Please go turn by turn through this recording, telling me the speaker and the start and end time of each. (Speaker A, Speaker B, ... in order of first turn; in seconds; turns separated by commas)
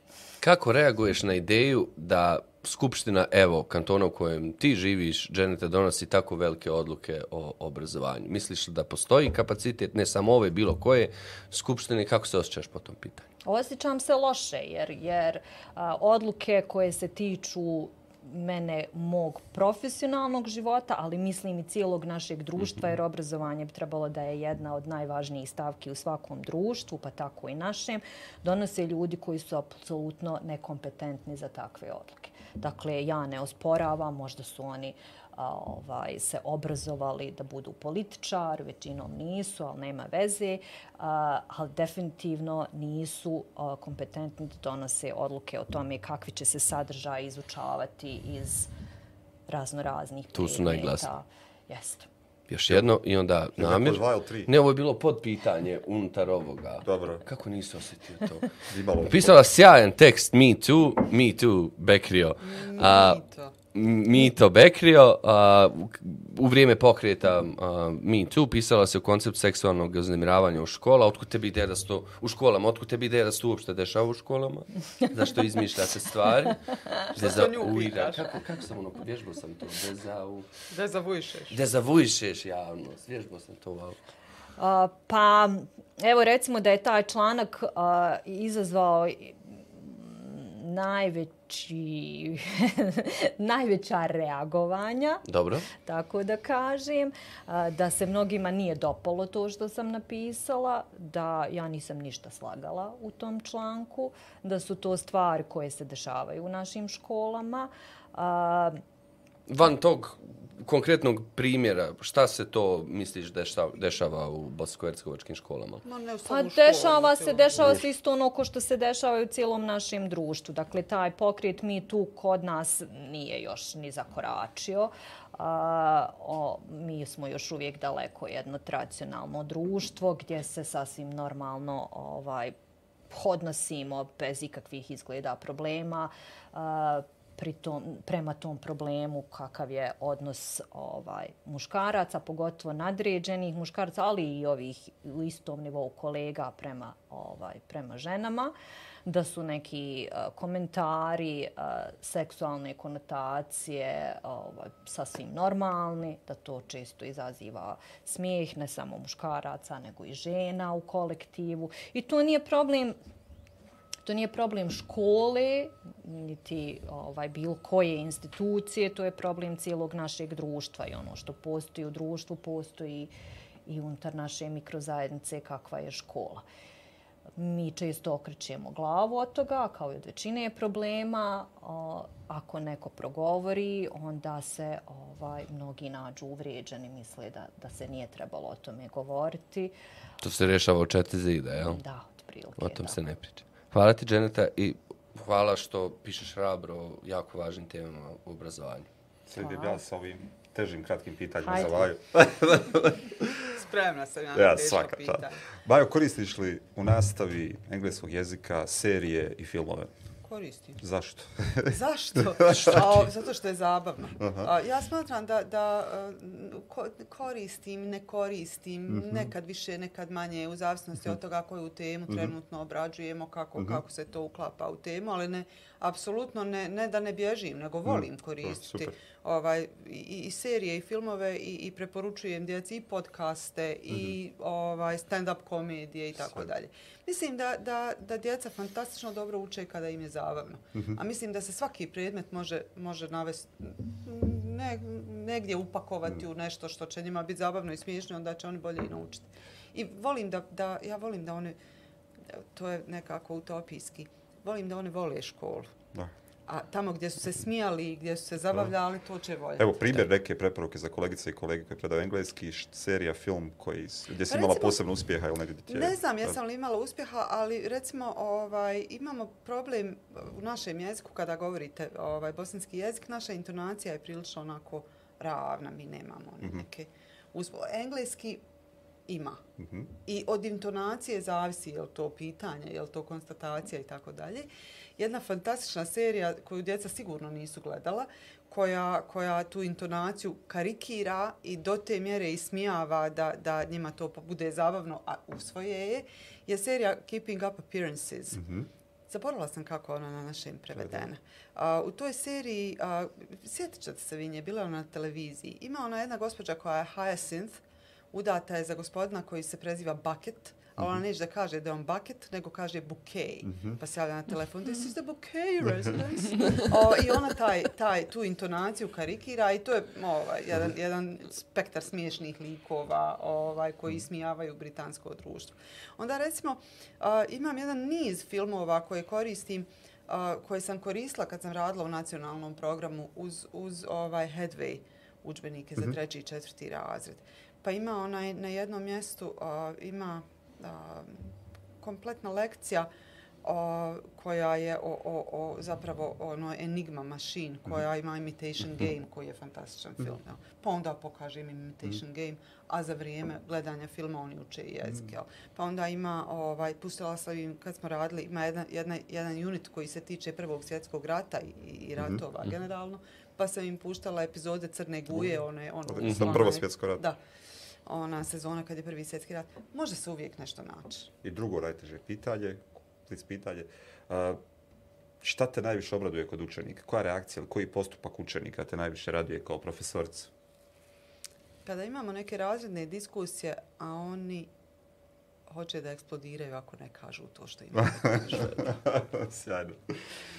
Speaker A: 0.4-13.3, Speaker B: 13.4-48.7, Speaker B: 49.5-52.1, Speaker A: 50.4-51.1, Speaker A: 52.5-58.5, Speaker C: 53.6-54.5, Speaker C: 56.8-57.2, Speaker C: 58.7-59.4, Speaker A: 59.0-63.2, Speaker D: 62.4-63.5, Speaker A: 63.7-76.6, Speaker A: 77.1-80.5, Speaker D: 77.2-78.3, Speaker D: 80.7-81.6, Speaker A: 81.5-84.0, Speaker B: 84.6-108.8, Speaker A: 95.2-95.7, Speaker A: 109.5-115.8, Speaker D: 115.8-117.8, Speaker B: 116.3-132.5, Speaker B: 133.1-148.5, Speaker B: 149.1-162.9, Speaker B: 164.0-173.1, Speaker B: 173.7-176.4, Speaker B: 177.4-189.7, Speaker A: 190.2-191.8, Speaker B: 191.6-193.1, Speaker A: 192.6-198.9, Speaker C: 199.3-203.5, Speaker B: 199.4-199.8, Speaker B: 201.4-201.8, Speaker D: 203.4-205.4, Speaker C: 204.3-209.9, Speaker D: 210.2-210.8, Speaker C: 210.8-211.8, Speaker D: 211.6-251.6, Speaker C: 212.3-212.8, Speaker C: 214.2-214.5, Speaker C: 218.9-219.3, Speaker C: 227.9-228.9, Speaker D: 252.3-255.7, Speaker D: 256.5-259.9, Speaker C: 259.6-266.3, Speaker D: 264.3-264.8, Speaker D: 265.7-278.4, Speaker D: 279.1-279.4, Speaker C: 279.6-279.9, Speaker D: 280.0-298.4, Speaker C: 298.3-298.7, Speaker D: 299.1-307.6, Speaker D: 308.1-342.9, Speaker C: 313.5-313.8, Speaker D: 343.4-367.2, Speaker C: 365.9-367.0, Speaker A: 366.0-366.5, Speaker D: 367.9-371.1, Speaker C: 371.2-374.4, Speaker C: 375.2-380.3, Speaker D: 381.6-384.5, Speaker D: 385.5-388.8, Speaker C: 388.4-390.0